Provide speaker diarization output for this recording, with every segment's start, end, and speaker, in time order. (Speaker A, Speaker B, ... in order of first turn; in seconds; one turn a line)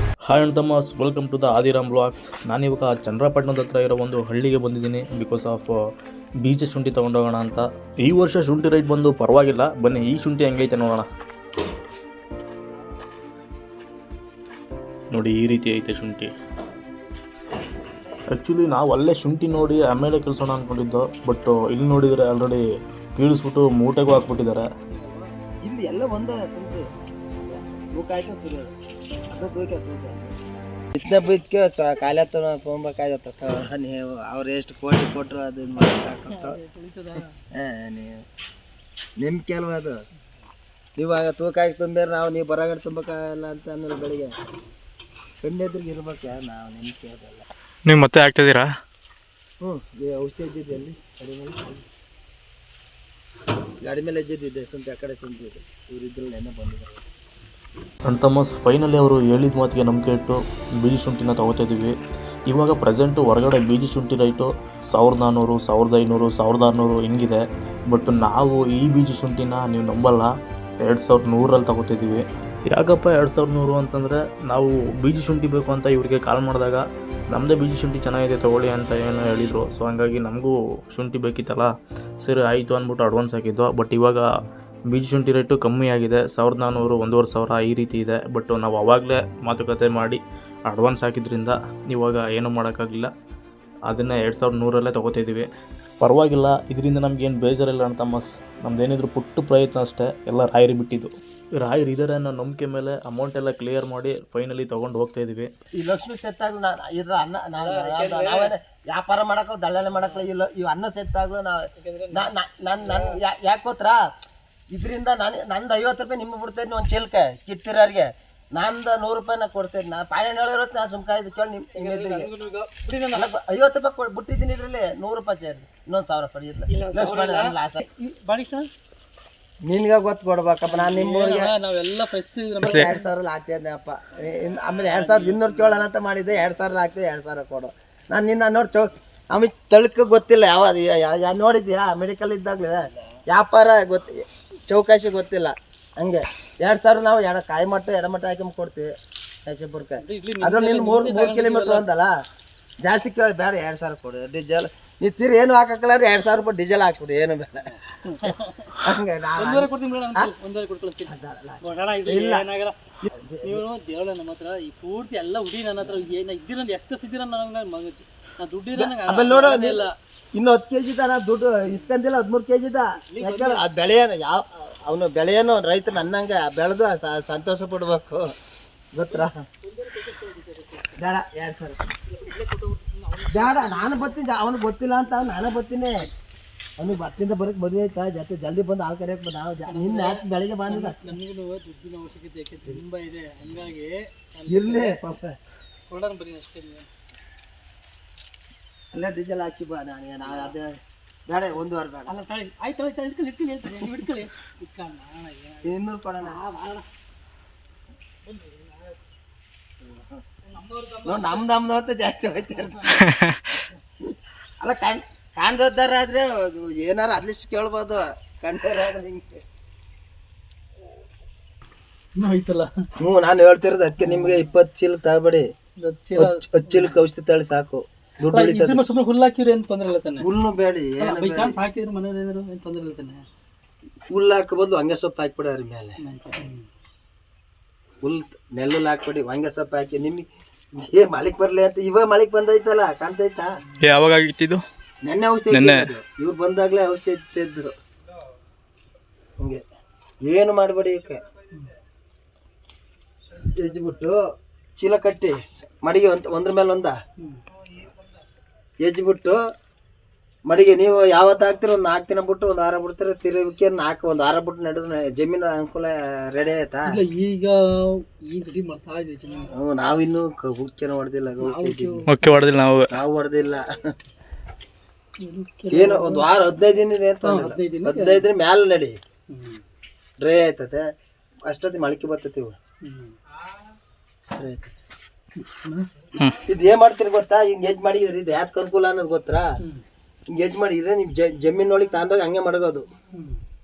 Speaker A: 0.3-5.7
Speaker A: 6.4-11.1
Speaker A: 15.1-16.3
Speaker A: 18.3-22.6
Speaker A: 23.2-24.7
Speaker B: 24.9-25.3
Speaker C: 25.6-26.9
Speaker C: 27.5-28.7
Speaker C: 29.3-30.4
Speaker C: 30.9-36.6
Speaker B: 35.8-37.4
Speaker C: 37.5-38.2
Speaker C: 39.2-40.0
Speaker C: 41.0-44.4
Speaker C: 45.4-47.5
Speaker A: 47.9-48.7
Speaker C: 49.6-51.9
Speaker C: 53.8-57.0
Speaker A: 58.1-62.0
Speaker A: 62.5-70.3
Speaker A: 70.8-81.7
Speaker A: 82.2-84.3
Speaker A: 84.9-93.1
Speaker A: 93.9-95.5
Speaker A: 96.0-105.5
Speaker C: 105.8-114.0
Speaker B: 107.6-108.5
Speaker B: 110.0-110.3
Speaker B: 111.8-113.2
Speaker C: 114.7-122.3
Speaker B: 121.8-123.3
Speaker C: 123.1-127.8
Speaker B: 126.7-128.7
Speaker C: 129.6-131.5
Speaker B: 130.7-133.1
Speaker C: 132.6-148.9
Speaker B: 134.8-135.9
Speaker C: 149.5-152.1
Speaker B: 150.0-151.8
Speaker C: 152.8-157.7
Speaker B: 158.0-162.8
Speaker C: 158.3-160.3
Speaker C: 161.1-162.4
Speaker C: 163.1-163.6
Speaker B: 163.4-169.9
Speaker C: 168.8-178.3
Speaker B: 171.7-171.9
Speaker B: 173.1-173.6
Speaker C: 178.9-179.4
Speaker B: 179.1-181.0
Speaker C: 181.0-181.9
Speaker B: 182.1-184.2
Speaker C: 183.3-186.1
Speaker C: 186.8-191.0
Speaker B: 189.7-195.0
Speaker C: 194.5-195.4
Speaker B: 195.9-196.9
Speaker C: 198.9-202.2
Speaker B: 200.3-200.5
Speaker B: 202.1-206.9
Speaker C: 205.6-206.4
Speaker B: 208.3-209.0
Speaker C: 209.8-210.2
Speaker B: 210.5-211.5
Speaker C: 211.1-213.0
Speaker B: 212.5-213.0
Speaker A: 212.9-213.6
Speaker C: 214.0-219.4
Speaker B: 222.2-222.7
Speaker C: 223.0-225.5
Speaker B: 224.0-224.5
Speaker B: 225.8-226.9
Speaker C: 226.2-228.8
Speaker B: 228.3-230.3
Speaker C: 230.2-231.6
Speaker B: 231.0-233.3
Speaker C: 234.1-236.0
Speaker B: 236.0-236.7
Speaker C: 238.0-243.6
Speaker A: 243.8-244.6
Speaker C: 245.0-247.7
Speaker A: 245.5-245.9
Speaker C: 250.2-251.2
Speaker C: 253.3-254.2
Speaker C: 254.8-257.0
Speaker C: 258.8-259.4
Speaker C: 260.5-267.0
Speaker B: 266.9-269.6
Speaker C: 269.5-272.1
Speaker B: 271.4-272.4
Speaker A: 272.1-272.9
Speaker C: 272.9-273.9
Speaker B: 275.2-276.3
Speaker C: 275.7-279.0
Speaker B: 277.2-278.3
Speaker B: 279.3-279.6
Speaker C: 280.2-280.9
Speaker C: 281.5-282.6
Speaker B: 282.8-283.2
Speaker C: 284.4-284.7
Speaker B: 285.4-285.9
Speaker C: 286.3-289.6
Speaker C: 290.3-292.9
Speaker B: 293.1-293.4